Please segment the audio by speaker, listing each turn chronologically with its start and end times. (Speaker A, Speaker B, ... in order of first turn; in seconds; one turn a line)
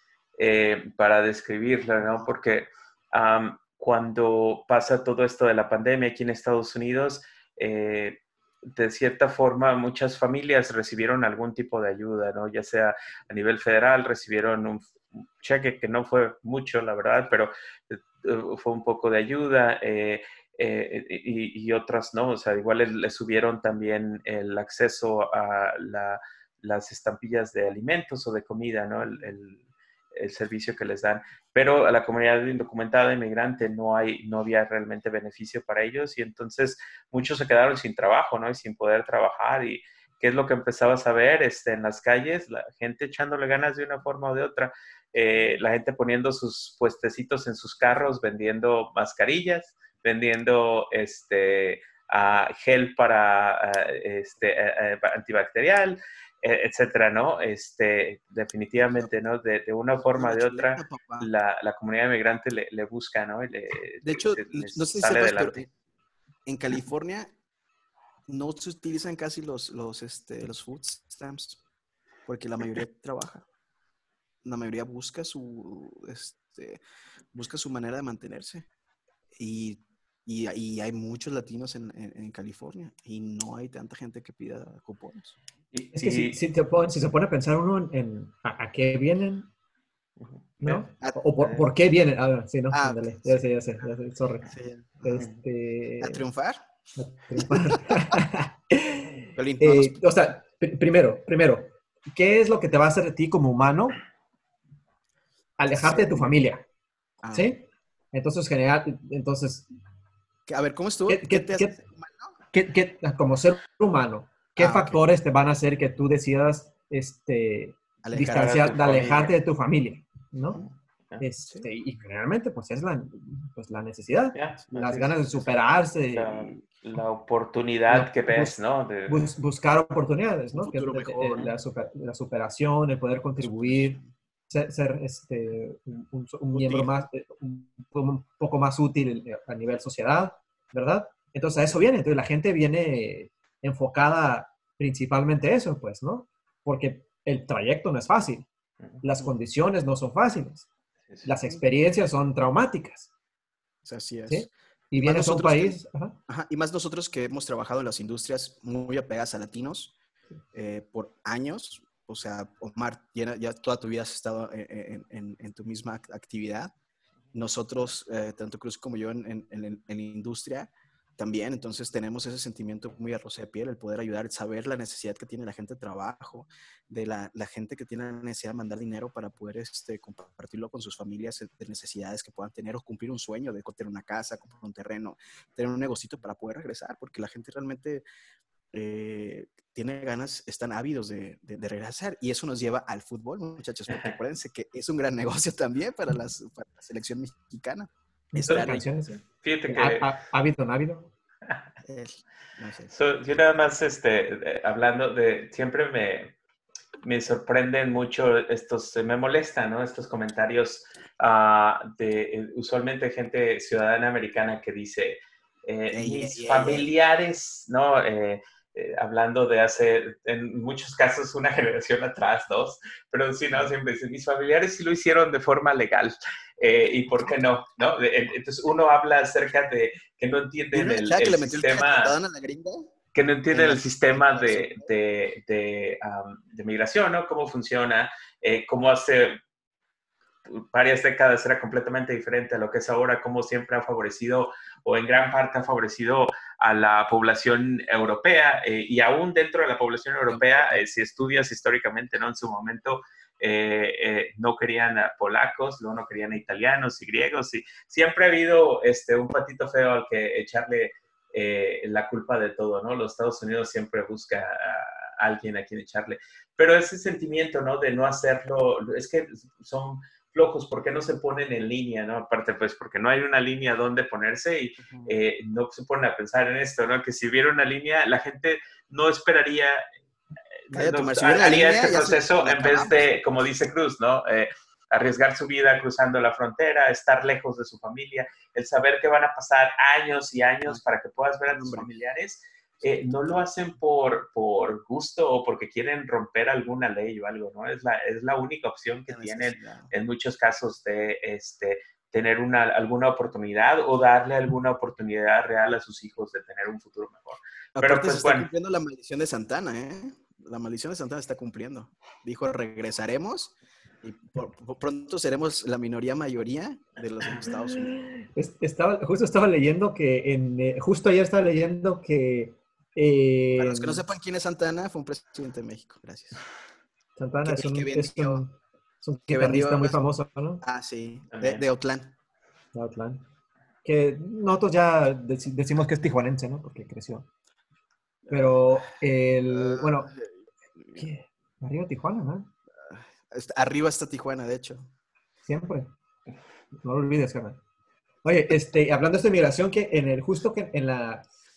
Speaker A: 0.4-29.6
Speaker A: 30.1-65.6
Speaker B: 60.1-61.3
Speaker B: 64.0-65.7
Speaker B: 66.5-67.3
Speaker B: 68.3-71.6
Speaker B: 72.2-73.5
Speaker B: 74.4-76.8
Speaker B: 77.3-78.7
Speaker B: 79.3-85.4
Speaker A: 85.7-86.4
Speaker C: 85.9-89.5
Speaker A: 90.2-90.8
Speaker C: 90.6-94.5
Speaker B: 92.7-93.4
Speaker B: 94.5-95.2
Speaker C: 95.0-96.2
Speaker B: 96.0-96.6
Speaker C: 97.0-104.0
Speaker B: 97.4-98.0
Speaker B: 99.3-100.0
Speaker C: 105.6-106.6
Speaker B: 105.7-106.2
Speaker B: 107.2-107.5
Speaker C: 107.3-109.7
Speaker B: 110.5-112.3
Speaker C: 111.1-111.8
Speaker C: 112.5-120.6
Speaker B: 114.6-115.0
Speaker B: 118.0-118.7
Speaker A: 118.2-119.3
Speaker A: 120.6-121.2
Speaker C: 121.2-126.6
Speaker A: 124.3-125.3
Speaker A: 126.1-129.3
Speaker C: 127.9-148.4
Speaker B: 130.5-131.5
Speaker B: 133.4-134.1
Speaker B: 136.5-136.9
Speaker C: 149.0-150.7
Speaker C: 151.2-153.1
Speaker B: 153.8-154.5
Speaker C: 154.3-156.2
Speaker B: 155.0-155.8
Speaker B: 156.3-159.9
Speaker B: 160.5-166.7
Speaker B: 167.3-188.0
Speaker B: 188.7-198.9
Speaker C: 198.3-201.1
Speaker A: 198.5-198.8
Speaker A: 199.4-200.1
Speaker B: 201.8-202.9
Speaker A: 202.9-206.3
Speaker A: 207.0-232.1
Speaker B: 215.9-216.9
Speaker B: 230.7-232.9
Speaker A: 233.1-239.4
Speaker B: 233.5-234.9
Speaker A: 240.5-279.8
Speaker B: 250.3-250.8
Speaker B: 274.8-275.1
Speaker A: 280.7-308.5
Speaker B: 280.7-283.1
Speaker B: 291.5-291.9
Speaker B: 299.1-299.9
Speaker B: 307.8-318.0
Speaker C: 317.9-324.0
Speaker B: 323.6-326.4
Speaker C: 327.2-330.6
Speaker B: 327.4-328.4
Speaker B: 329.3-330.0
Speaker B: 330.6-332.1
Speaker A: 331.3-331.6
Speaker C: 332.7-333.2
Speaker C: 333.8-337.3
Speaker B: 338.2-338.5
Speaker C: 338.3-340.1
Speaker B: 339.5-341.1
Speaker C: 341.0-342.5
Speaker B: 342.8-344.9
Speaker C: 345.5-345.9
Speaker C: 346.8-347.6
Speaker C: 348.2-351.2